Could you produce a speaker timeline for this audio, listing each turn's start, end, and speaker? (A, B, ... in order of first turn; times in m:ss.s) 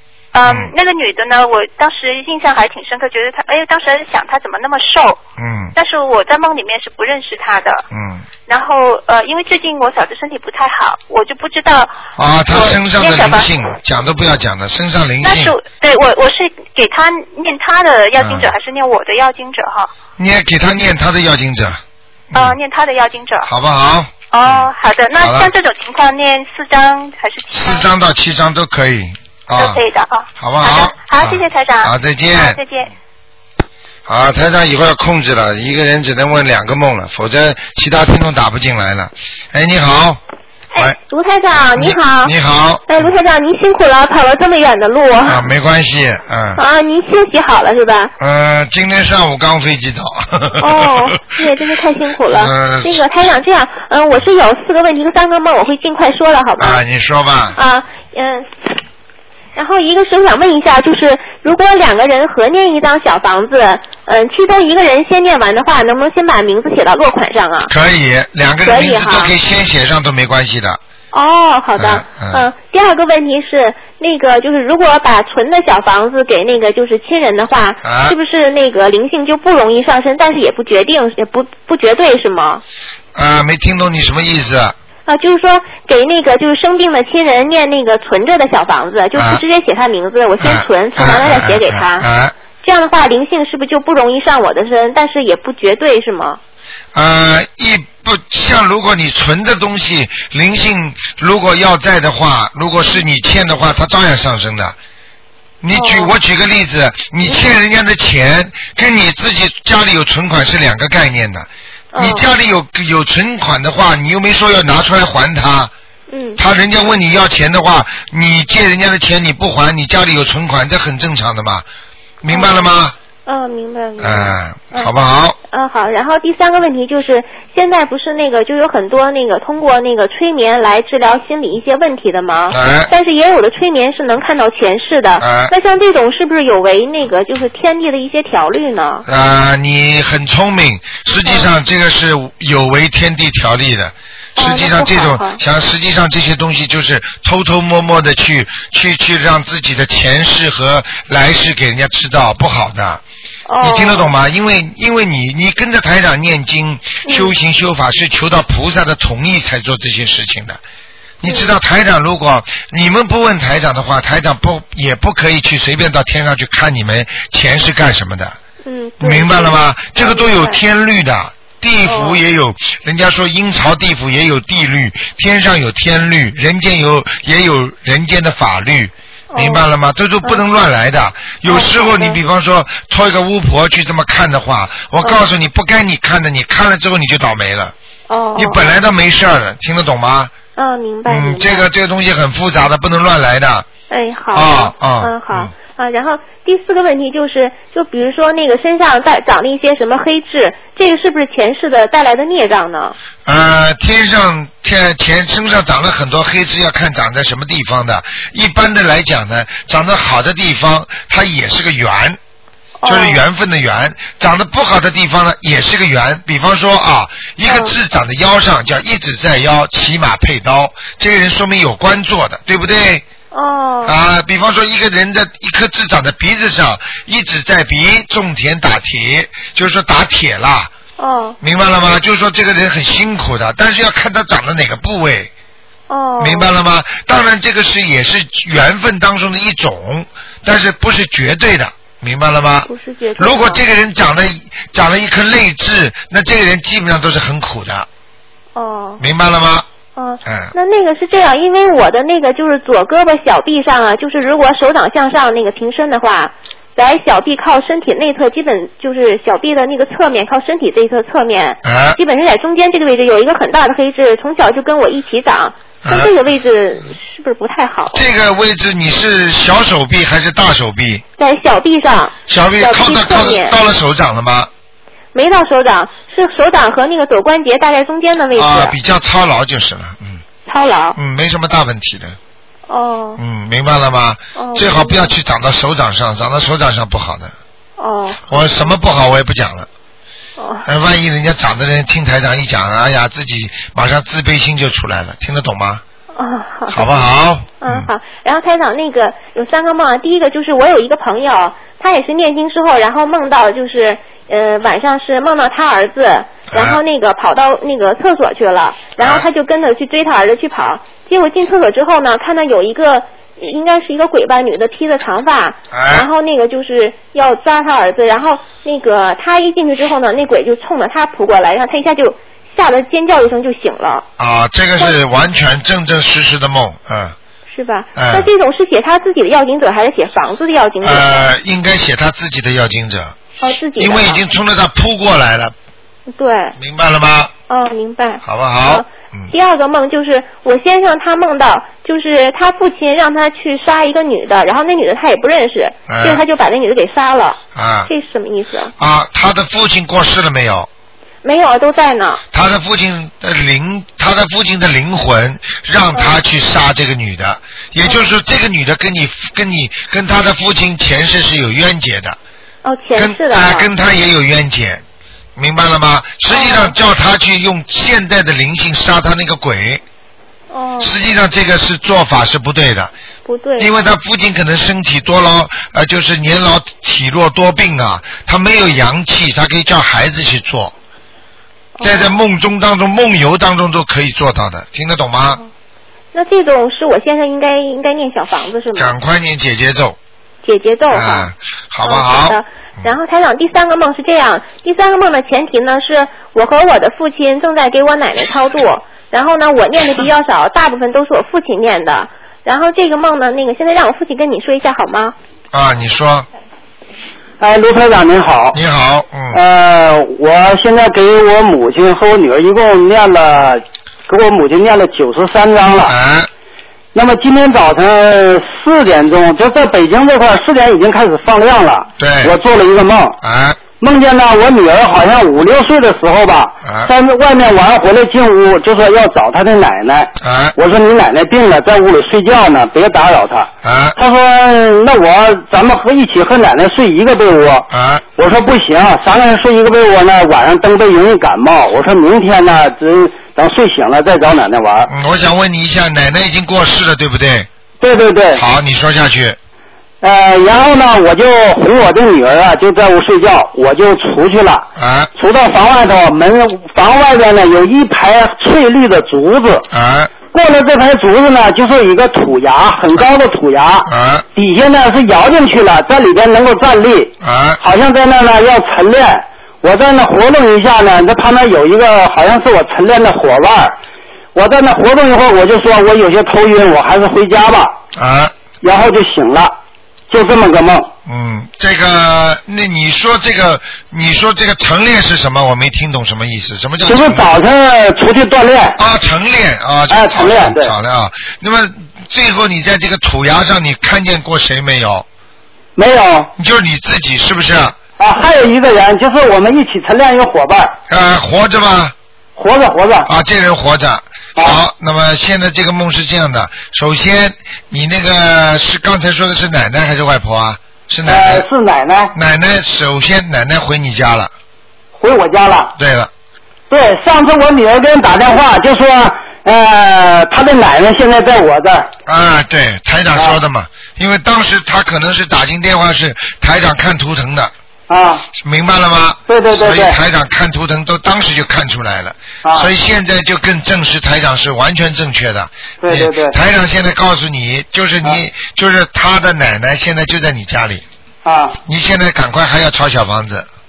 0:00.3-0:05.2 A
0:00.5-0:00.7 B
0:05.4-0:05.7 B
0:05.8-0:07.8 A
0:07.9-0:08.2 B
0:08.5-0:12.0 A
0:12.2-0:15.5 B
0:12.5-0:13.5 A
0:15.2-0:19.9 A
0:18.2-0:18.5 B
0:20.2-0:21.8 B
0:22.3-0:22.6 B
0:22.3-0:23.5 A
0:23.5-0:25.5 B
0:24.3-0:27.9 A
0:27.5-0:29.8 B
0:29.6-0:32.9 A
0:30.4-0:32.6 B
0:34.1-0:40.2 B
0:40.8-0:42.4 C
0:41.8-0:43.1 B
0:42.9-0:45.5 C
0:45.2-0:46.6 B
0:46.6-0:48.1 C
0:48.2-0:51.4 B
0:50.6-0:56.8 C
0:52.3-0:53.1 B
0:56.6-0:57.6 B
0:57.6-0:58.5 C
0:59.6-1:07.7 C
1:07.7-1:10.8 B
1:08.6-1:09.3 C
1:11.1-1:22.6 C
1:11.8-1:12.5 B
1:17.8-1:18.2 B
1:23.2-1:24.8 B
1:25.1-1:32.1 C
1:29.2-1:29.4 B
1:30.4-1:32.4 B
1:32.6-1:36.4 C
1:36.9-1:44.8 B
1:45.6-1:55.7 B
1:45.7-1:46.1 C
1:51.9-1:52.3 C
1:56.1-1:56.4 C
1:56.4-2:01.6 B
2:02.2-2:03.0 B
2:02.3-2:19.1 C
2:04.0-2:05.4 B
2:12.5-2:12.9 B
2:15.2-2:15.5 B
2:19.1-2:33.0 B
2:21.2-2:21.5 C
2:24.4-2:25.4 C
2:33.5-2:34.1 C
2:33.6-2:40.6 B
2:37.1-2:37.3 C
2:41.2-2:48.4 B
2:41.2-2:41.6 C
2:48.6-2:50.6 C
2:49.0-3:07.8 B
2:51.8-2:52.2 C
2:59.3-2:59.6 C
3:01.5-3:02.2 C
3:05.0-3:05.3 C
3:08.1-3:08.8 C
3:08.4-3:10.3 B
3:10.6-3:11.7 C
3:11.1-3:13.7 B
3:13.9-3:23.0 C
3:14.3-3:15.5 B
3:23.3-3:32.2 B
3:32.8-3:33.2 C
3:32.9-3:43.1 B
3:37.4-3:37.7 C
3:43.3-3:44.0 C
3:43.8-3:50.7 B
3:51.0-3:51.4 C
3:51.4-3:55.3 B
3:55.9-3:56.5 C
3:56.2-4:07.9 B
4:02.7-4:03.6 C
4:08.6-4:09.0 C
4:09.0-4:09.7 B
4:10.0-4:28.0 C
4:10.2-4:10.5 B
4:21.6-4:22.0 B
4:25.8-4:26.2 B
4:27.9-4:31.0 B
4:31.2-4:33.6 C
4:32.3-4:34.5 B
4:35.1-4:38.8 C
4:38.3-4:40.2 B
4:40.5-4:41.0 C
4:41.0-4:42.2 B
4:42.7-4:43.2 C
4:43.2-4:47.4 B
4:44.4-4:45.2 C
4:47.8-4:48.7 C
4:48.3-4:49.7 B
4:50.4-4:50.7 C
4:50.7-4:55.8 B
4:56.2-4:57.0 C
4:56.7-4:57.9 B
4:57.6-5:24.1 C
5:06.5-5:06.8 B
5:09.0-5:09.3 B
5:15.7-5:16.1 B
5:24.2-5:27.2 B
5:27.5-5:31.3 C
5:28.0-5:28.3 B
5:30.8-5:33.2 B
5:33.4-5:34.2 C
5:33.8-5:35.5 B
5:36.1-5:36.6 C
5:36.6-5:37.3 B
5:37.5-5:48.7 C
5:38.2-5:39.3 B
5:45.9-5:46.2 B
5:47.6-5:47.9 B
5:48.8-5:50.7 B
5:51.2-5:52.2 C
5:52.3-6:02.2 B
5:57.8-5:58.1 C
6:02.6-6:03.7 C
6:03.0-6:04.8 B
6:05.4-6:09.8 B
6:06.3-6:06.8 C
6:10.5-6:11.0 C
6:10.8-6:12.9 B
6:13.2-6:13.8 C
6:13.6-6:20.7 B
6:21.8-6:22.2 C
6:21.8-6:25.4 B
6:26.1-6:29.0 C
6:28.8-6:30.0 B
6:30.4-6:31.3 C
6:30.9-6:32.9 B
6:31.8-6:45.2 C
6:45.5-6:46.3 B
6:47.4-6:48.6 D
6:48.5-6:49.4 B
6:49.3-6:56.0 D
6:55.8-6:56.3 B
6:56.9-7:03.2 D
7:02.0-7:02.3 B
7:03.2-7:03.6 B
7:03.8-7:24.9 D
7:06.6-7:06.9 B
7:10.2-7:10.6 B
7:13.6-7:14.0 B
7:17.7-7:18.0 B
7:24.9-7:27.5 B
7:27.8-7:28.4 D
7:28.4-7:29.4 B
7:30.0-7:39.7 D
7:34.8-7:35.1 B
7:39.7-7:40.1 B
7:40.3-7:53.8 D
7:43.9-7:44.3 B
7:47.2-7:47.6 B
7:54.4-7:57.8 D
7:58.0-7:58.4 B
7:58.6-7:59.6 D
8:00.1-8:00.9 D
8:01.1-8:07.3 B
8:06.9-8:08.8 D
8:08.8-8:15.1 B
8:09.9-8:10.7 D
8:15.8-8:16.3 D
8:16.4-8:17.8 B
8:18.0-8:20.8 D
8:20.9-8:21.9 B
8:22.4-8:23.1 D
8:23.1-8:31.5 B
8:31.1-8:32.1 D
8:32.1-8:34.3 B
8:35.0-8:35.7 D
8:35.8-8:36.1 B
8:36.7-8:41.9 D
8:42.1-8:47.5 B
8:47.9-8:48.3 D
8:48.4-9:00.8 B
8:49.3-8:50.0 D
8:52.4-8:52.7 D
8:55.8-8:56.4 D
9:01.2-9:01.6 D
9:01.6-9:03.5 B